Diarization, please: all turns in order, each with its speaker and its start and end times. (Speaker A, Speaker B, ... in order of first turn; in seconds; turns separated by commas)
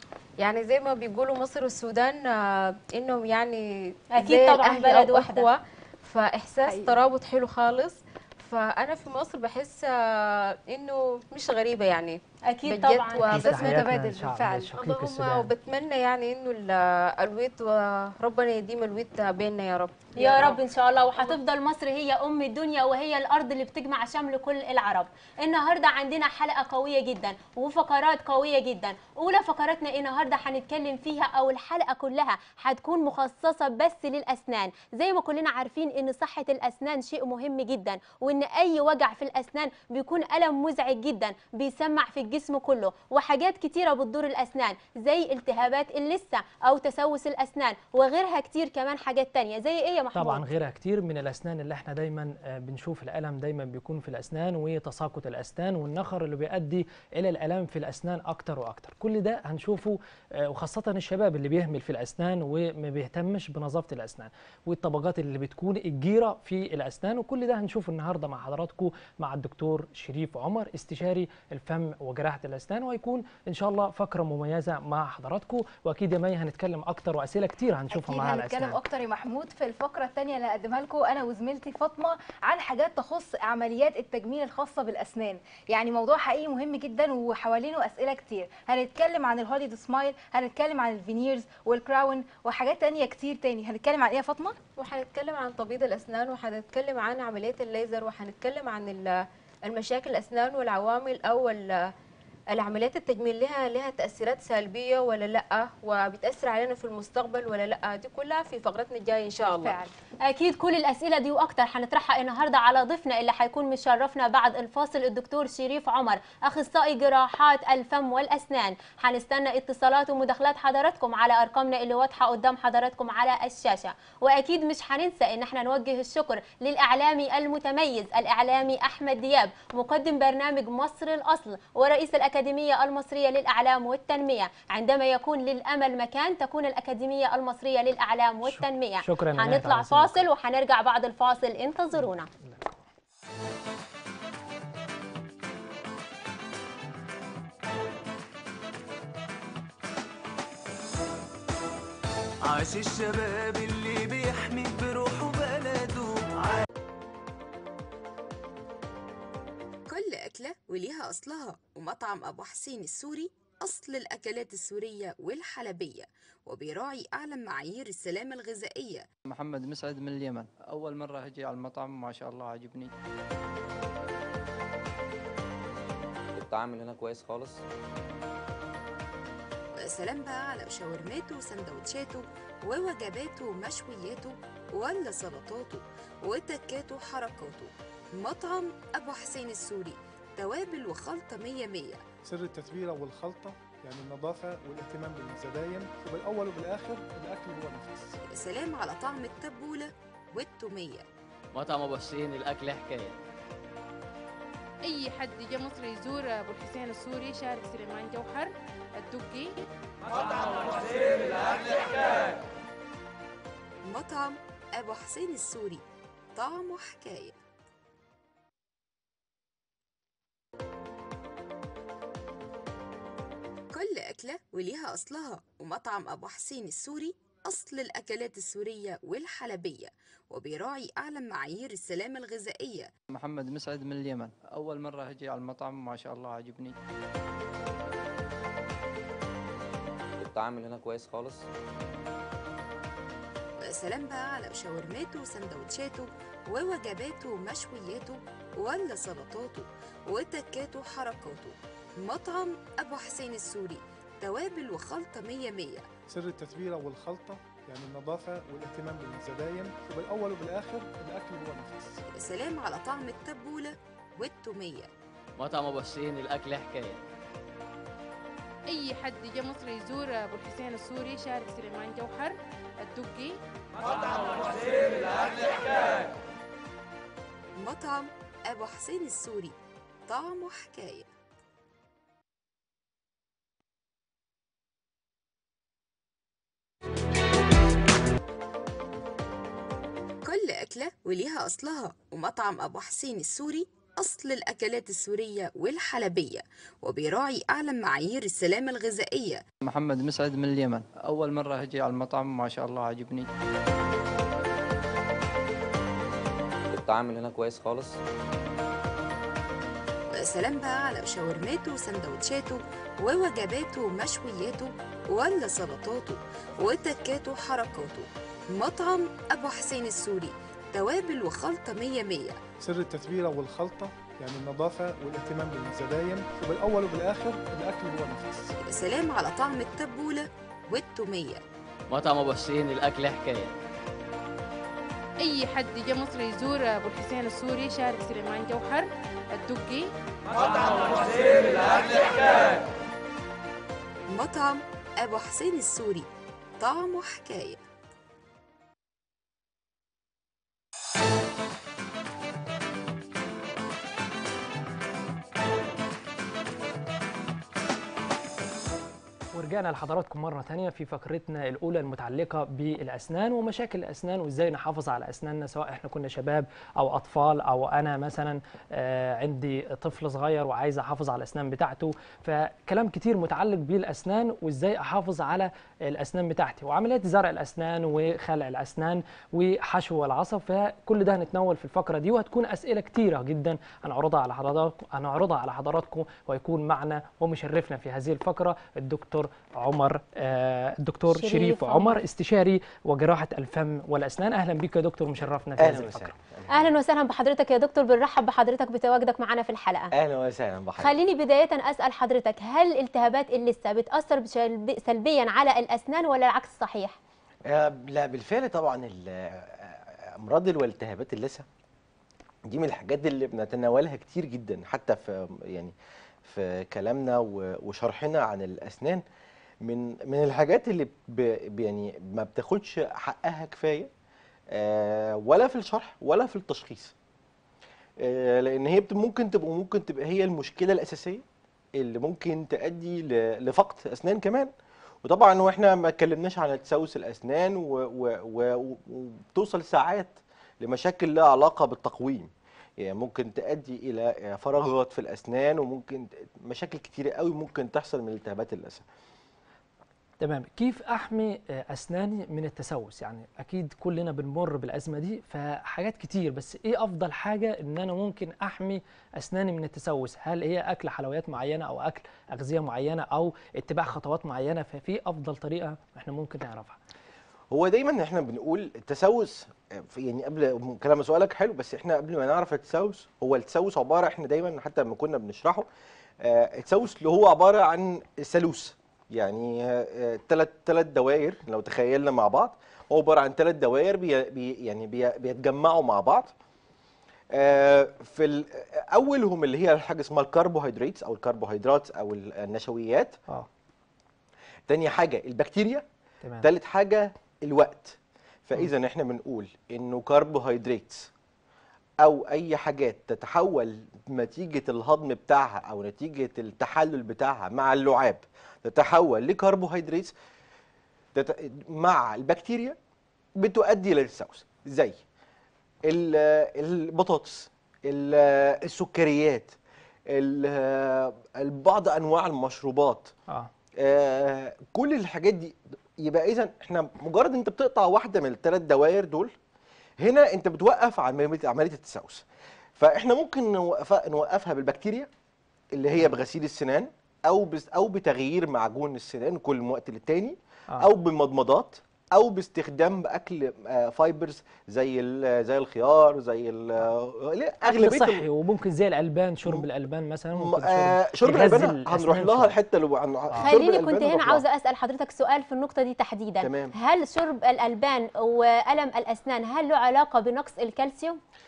Speaker A: 0.4-13.9, Speaker B: 4.2-5.5, Speaker C: 6.7-7.0, Speaker B: 12.5-13.6, Speaker D: 13.3-15.5, Speaker C: 13.4-14.7, Speaker A: 14.7-20.5, Speaker B: 20.2-50.5, Speaker D: 50.1-78.8, Speaker C: 77.9-94.6, Speaker A: 94.8-101.9, Speaker A: 102.5-109.9, Speaker C: 109.5-109.9, Speaker B: 110.2-142.3, Speaker D: 138.4-140.2, Speaker E: 152.4-156.4, Speaker F: 159.9-169.1, Speaker G: 169.3-172.9, Speaker H: 176.3-177.6, Speaker F: 179.8-192.0, Speaker I: 192.2-198.2, Speaker F: 198.3-201.1, Speaker J: 201.5-203.2, Speaker K: 204.8-209.7, Speaker F: 213.8-215.8, Speaker F: 216.3-217.4, Speaker F: 223.7-232.9, Speaker G: 233.1-236.8, Speaker H: 240.2-241.5, Speaker F: 243.6-255.9, Speaker I: 256.1-262.0, Speaker F: 262.2-264.9, Speaker J: 265.4-267.0, Speaker K: 268.7-273.4, Speaker F: 277.6-279.6, Speaker F: 280.1-281.1, Speaker F: 290.2-299.4, Speaker G: 299.6-303.3, Speaker H: 306.7-308.0, Speaker F: 310.1-322.4, Speaker I: 322.6-328.5, Speaker F: 328.7-331.4, Speaker J: 331.9-333.5, Speaker K: 335.2-339.9, Speaker K: 340.8-341.4, Speaker F: 344.1-346.1, Speaker F: 346.6-347.6, Speaker D: 359.4-396.1, Speaker B: 391.1-392.0, Speaker L: 395.6-396.7, Speaker B: 396.5-399.9, Speaker L: 399.9-400.9, Speaker B: 400.8-407.0, Speaker L: 407.5-411.4, Speaker L: 412.5-415.7, Speaker L: 416.2-419.0, Speaker L: 419.6-423.9, Speaker L: 424.5-426.9, Speaker L: 428.0-431.2, Speaker L: 431.8-434.5, Speaker L: 435.1-448.9, Speaker D: 450.2-466.8, Speaker L: 467.5-475.7, Speaker L: 476.2-486.3, Speaker L: 487.3-493.2, Speaker L: 494.7-495.9, Speaker L: 496.4-501.1, Speaker L: 502.0-510.1, Speaker L: 511.1-512.8, Speaker L: 513.4-515.0, Speaker L: 515.9-519.6, Speaker L: 520.1-523.1, Speaker L: 523.8-529.3, Speaker L: 530.0-532.2, Speaker L: 532.8-535.1, Speaker L: 535.7-548.2, Speaker D: 547.7-552.5, Speaker L: 550.4-554.4, Speaker B: 553.4-561.2, Speaker L: 556.4-556.7